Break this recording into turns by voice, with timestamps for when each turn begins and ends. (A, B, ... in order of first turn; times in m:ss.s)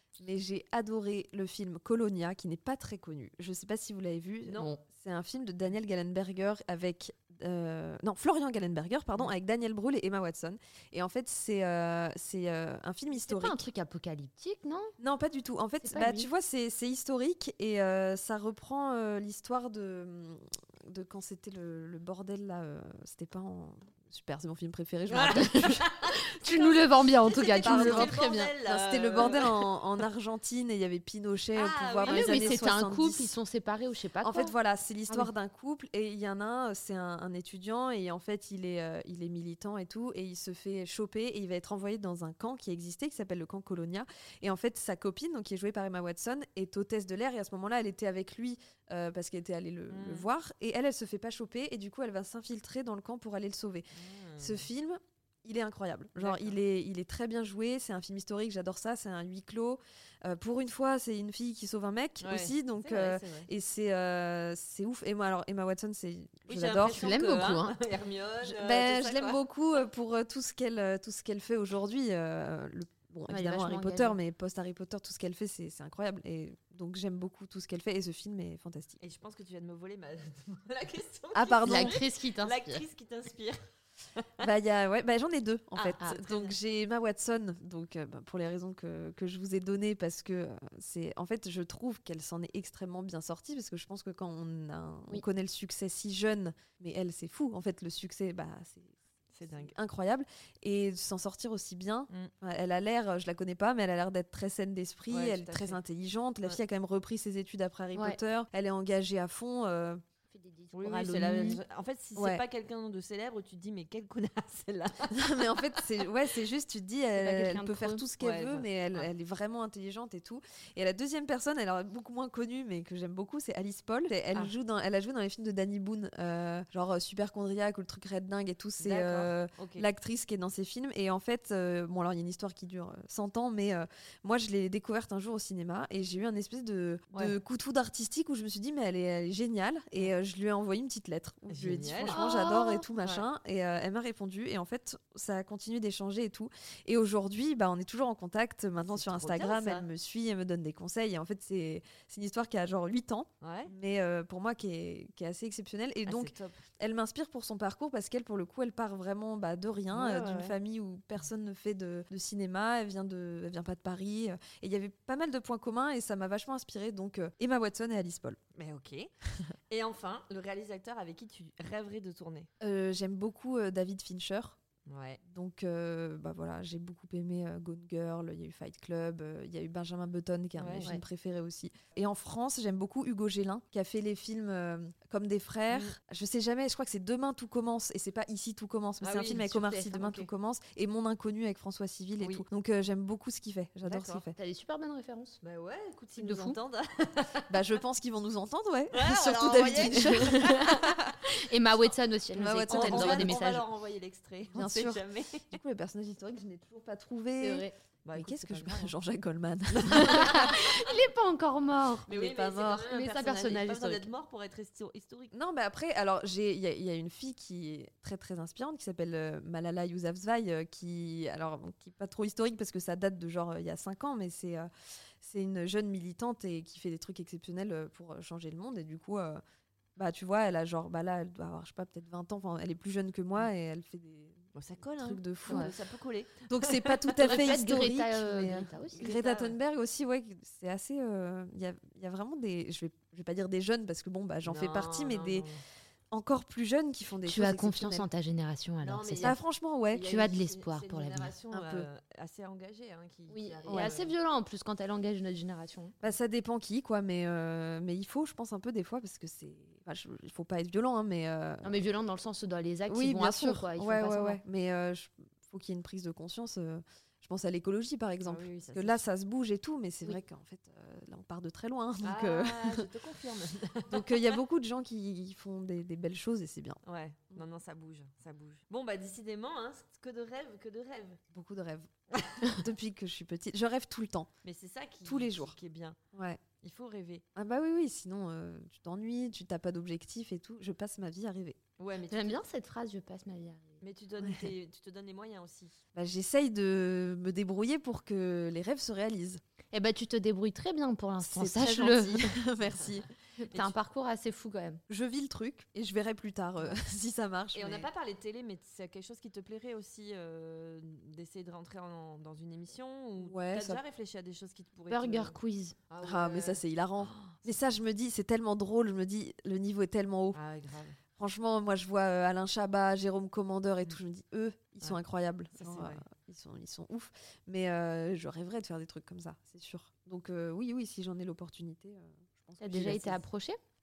0:00.2-0:13.6 A
0:04.5-0:04.7 B
0:04.6-0:04.8 C
0:13.1-0:14.9 C
0:15.0-0:25.8 A
0:15.8-0:16.3 C
0:25.1-0:28.5 C
0:25.2-0:29.7 B
0:27.6-0:33.4 A
0:31.6-0:32.6 B
0:32.1-0:34.5 C
0:34.2-1:07.1 A
0:49.9-0:50.3 B
0:53.9-0:54.7 B
0:56.2-0:56.6 B
1:02.2-1:03.5 B
1:06.5-1:09.4 B
1:06.9-1:07.8 C
1:08.4-1:19.0 A
1:13.3-1:14.2 C
1:19.0-1:23.6 B
1:21.3-1:22.0 A
1:21.6-1:22.8 C
1:24.2-1:24.5 B
1:24.4-1:39.0 A
1:25.8-1:26.6 B
1:39.3-1:39.8 B
1:39.5-1:50.0 A
1:45.1-1:45.8 B
1:50.3-1:51.6 C
1:50.7-1:56.1 B
1:52.2-1:52.4 A
1:55.1-2:48.4 A
1:57.2-1:58.1 C
1:58.2-1:59.1 B
2:08.8-2:09.9 B
2:21.5-2:22.3 B
2:22.1-2:22.8 C
2:23.0-2:23.3 B
2:28.9-2:29.9 B
2:33.4-2:33.7 B
2:36.1-2:36.6 B
2:39.9-2:40.6 B
2:48.6-2:49.1 B
2:49.7-2:52.5 B
2:52.6-2:54.6 A
2:54.9-2:55.2 B
2:55.3-3:14.4 A
3:00.6-3:00.9 B
3:05.7-3:06.0 B
3:09.0-3:10.3 B
3:09.4-3:10.0 C
3:12.2-3:12.4 B
3:13.8-3:14.2 B
3:14.4-3:15.4 C
3:15.4-3:17.6 B
3:16.2-3:16.6 C
3:17.5-3:21.2 A
3:18.9-3:20.9 B
3:19.8-3:23.6 C
3:22.3-3:23.5 A
3:22.7-3:25.5 B
3:24.5-3:30.6 A
3:27.4-3:27.8 C
3:28.0-3:28.9 B
3:29.8-3:30.8 B
3:29.8-3:32.1 C
3:32.1-3:35.3 B
3:32.1-3:32.9 A
3:32.9-3:34.1 C
3:35.3-3:44.7 A
3:45.2-3:49.4 A
3:50.0-3:54.4 A
3:54.6-3:57.5 B
3:55.0-3:55.8 A
3:55.5-3:55.7 C
3:56.5-4:05.5 A
3:57.2-3:59.1 C
3:59.0-3:59.6 B
4:04.4-4:05.6 B
4:06.1-4:08.1 A
4:07.3-4:09.4 C
4:08.8-4:14.1 B
4:09.2-4:10.1 A
4:10.0-4:11.3 C
4:11.5-4:11.9 A
4:13.3-4:15.9 C
4:13.7-4:13.9 A
4:16.0-4:21.8 A
4:21.6-4:24.4 C
4:22.9-4:32.9 A
4:28.2-4:29.0 B
4:32.0-4:34.4 B
4:33.9-4:36.8 A
4:36.8-4:41.2 B
4:41.3-4:41.9 A
4:42.1-4:42.6 B
4:42.5-4:44.3 A
4:44.4-4:46.0 B
4:45.0-4:45.6 A
4:46.1-4:46.4 A
4:46.6-4:47.2 B
4:47.4-4:51.6 A
4:51.8-4:52.4 B
4:52.1-4:53.8 C
4:53.8-4:55.8 B
4:54.2-4:54.5 A
4:55.9-4:59.4 A
4:59.7-5:02.3 C
5:01.2-5:03.1 A
5:03.4-5:04.8 C
5:04.9-5:07.9 A
5:07.5-5:15.4 B
5:13.2-5:13.8 A
5:14.9-5:15.8 C
5:15.9-5:17.4 B
5:16.0-5:20.4 A
5:20.3-5:21.0 B
5:21.2-5:33.2 A
5:25.6-5:26.0 B
5:32.6-5:33.6 C